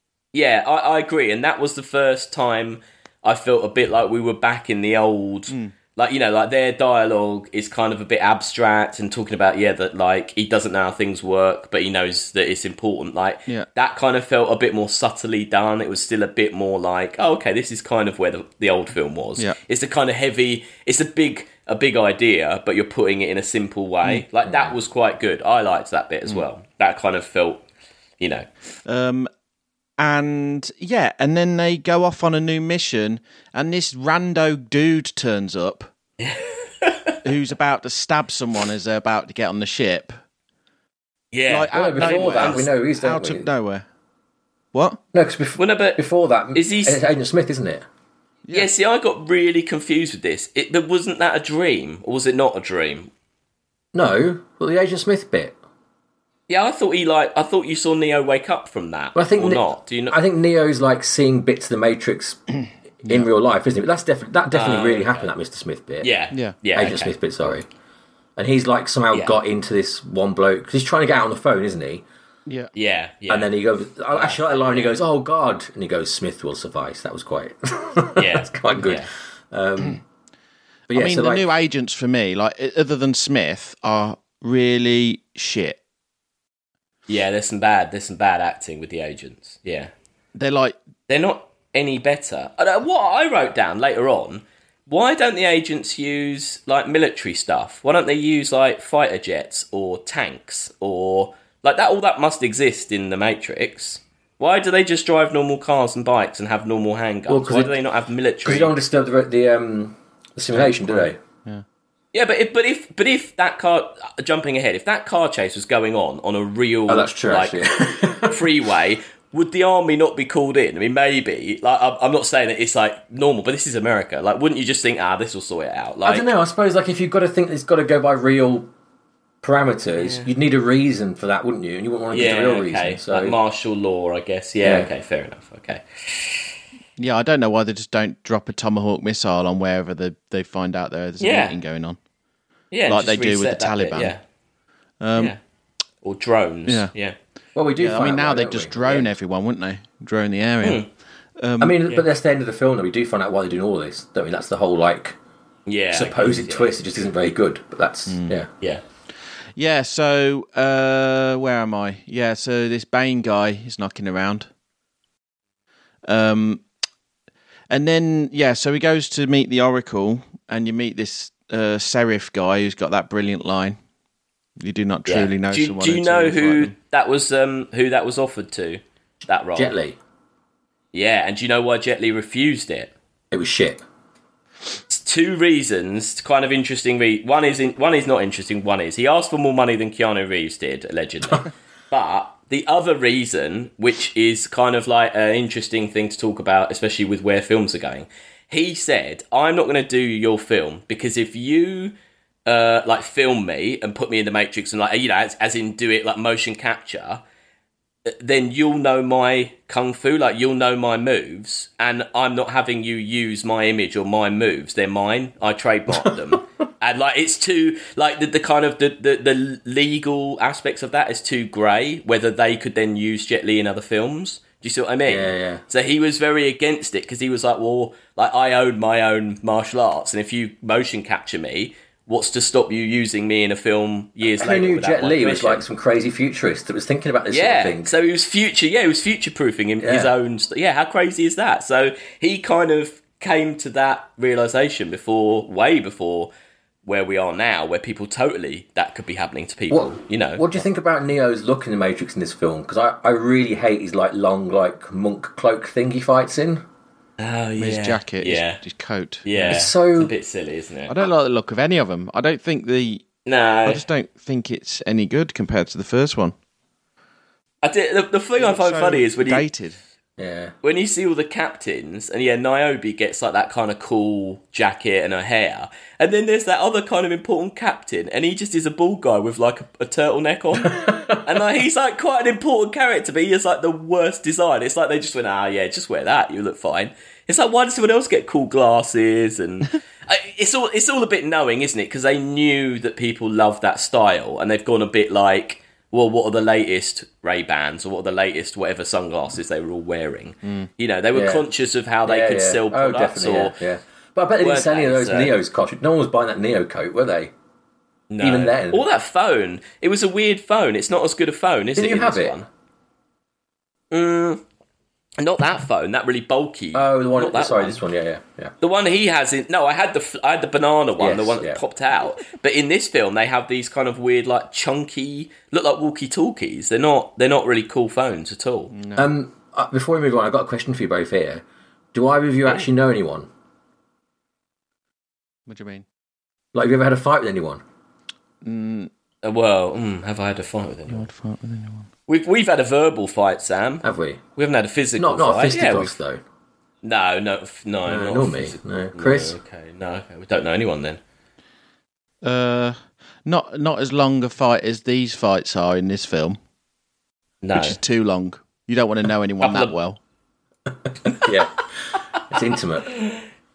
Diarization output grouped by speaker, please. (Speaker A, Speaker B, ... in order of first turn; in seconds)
Speaker A: 0.3-27.6, 28.2-28.5, 36.2-37.2, 41.3-42.7, 45.6-46.0, 46.5-47.0, 48.5-53.1, 56.5-60.2, 64.5-65.3, 66.0-67.1, 72.7-73.5, 74.1-75.0, 78.2-79.1, 87.1-89.9, 91.1-108.7, 112.1-126.3, 130.0-130.3, 132.1-136.5, 141.2-141.6, 142.7-144.2, 146.0-147.2, 155.7-156.8, 175.1-179.8, 180.9-182.9, 184.9-201.9, 202.5-207.2, 208.1-235.6, 237.3-246.3, 246.8-250.6, 257.2-258.6, 259.2-260.9, 263.3-263.8, 267.6-269.4, 270.6-303.6, 304.4-305.4, 308.1-312.5, 313.9-314.4, 315.2-317.8, 318.6-328.7, 339.2-341.1, 342.1-343.8, 344.4-345.9, 346.8-351.0, 357.4-357.8, 359.4-359.7, 362.9-363.2
Speaker B: 5.5-5.8, 28.9-29.3, 30.0-35.9, 37.2-40.2, 41.5-43.9, 44.7-45.0, 66.3-66.6, 80.9-85.8, 90.3-90.8, 110.5-111.6, 137.0-142.0, 142.9-144.1, 145.0-145.3, 147.8-150.8, 151.4-152.0, 158.1-158.4, 159.6-164.5, 166.1-166.6, 167.7-173.8, 174.6-176.7, 257.6-259.6, 260.9-263.1, 263.7-266.4, 268.4-269.8, 328.7-329.1, 335.5-335.9, 338.4-338.9, 340.9-341.9, 352.2-356.4, 357.6-360.0
Speaker C: 24.4-24.8, 41.7-43.5, 45.1-47.9, 53.9-55.6, 59.1-62.4, 63.0-66.1, 66.7-67.7, 68.4-72.0, 73.3-80.0, 80.9-81.5, 107.3-107.7, 108.5-111.2, 116.9-118.5, 126.0-128.7, 129.4-133.4, 134.6-134.9, 147.6-149.1, 151.6-155.2, 155.9-158.5, 179.6-180.0, 183.3-183.8, 215.9-216.2, 225.1-225.6, 234.3-237.9, 239.8-240.1, 249.7-256.6, 259.5-260.1, 270.2-270.5, 280.7-281.2, 301.1-301.5, 302.1-307.3, 308.2-308.9, 311.8-312.4, 316.7-318.5, 321.0-321.6, 328.9-333.3, 336.5-337.6, 343.8-344.2, 345.0-346.2, 347.9-349.4, 361.1-361.6, 362.3-362.9